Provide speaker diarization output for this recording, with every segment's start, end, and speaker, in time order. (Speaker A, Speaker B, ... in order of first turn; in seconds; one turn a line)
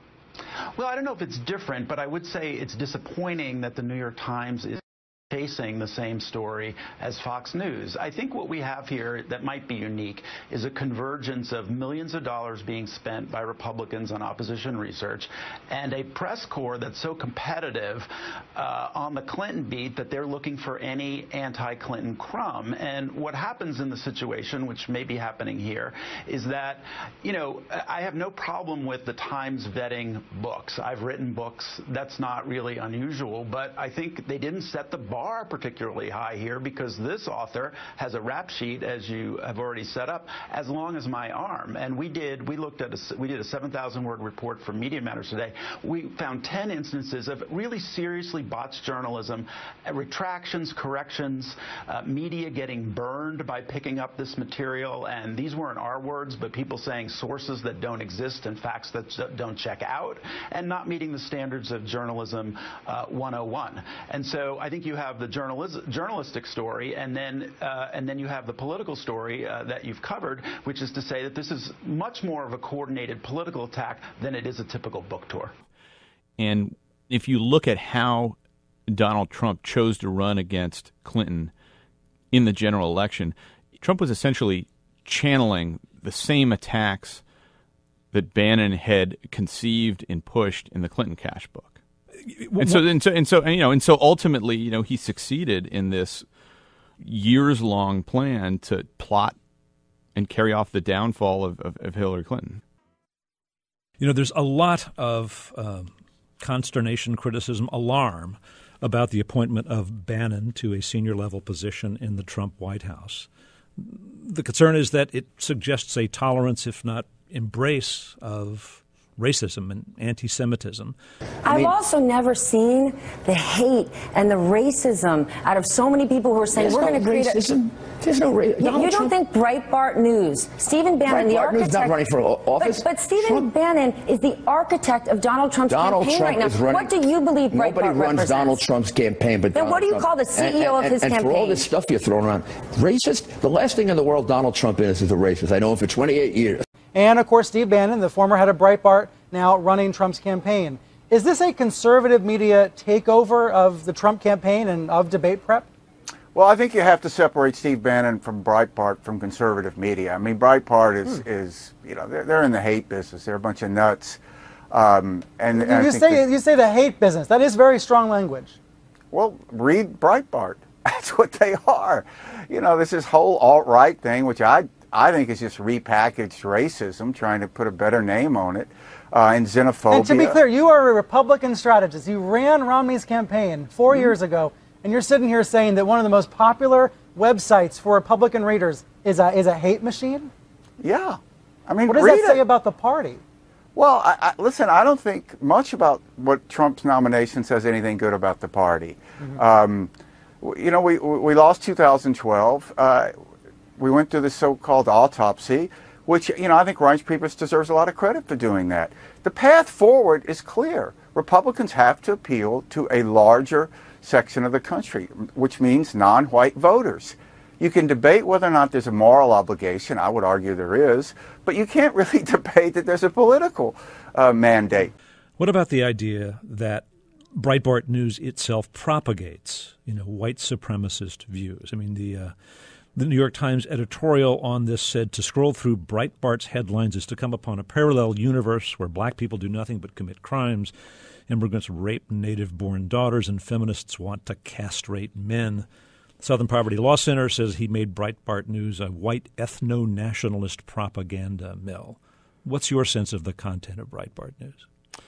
Speaker A: 0.7-75.5
Speaker B: 76.4-78.4
Speaker B: 78.9-81.5
Speaker B: 82.3-87.2
Speaker B: 88.1-91.8
Speaker C: 92.3-92.8
Speaker B: 92.6-96.3
Speaker B: 97.0-99.4
Speaker B: 100.2-102.6
Speaker C: 104.0-121.0
Speaker D: 121.5-127.4
Speaker E: 121.5-121.8
Speaker E: 126.5-129.1
Speaker D: 128.6-132.1
Speaker E: 131.1-133.5
Speaker D: 132.6-138.7
Speaker E: 135.7-137.0
Speaker E: 137.5-146.6
Speaker D: 139.5-141.7
Speaker F: 146.9-155.7
Speaker G: 156.3-164.2
Speaker G: 164.7-166.2
Speaker F: 165.6-168.6
Speaker G: 169.1-180.4
Speaker F: 179.9-190.3
Speaker G: 190.8-192.4
Speaker F: 191.9-193.2
Speaker G: 193.8-203.1
Speaker G: 203.8-224.9
Speaker C: 225.4-232.3
Speaker C: 232.9-240.7
Speaker C: 241.3-245.7
Speaker C: 246.2-254.7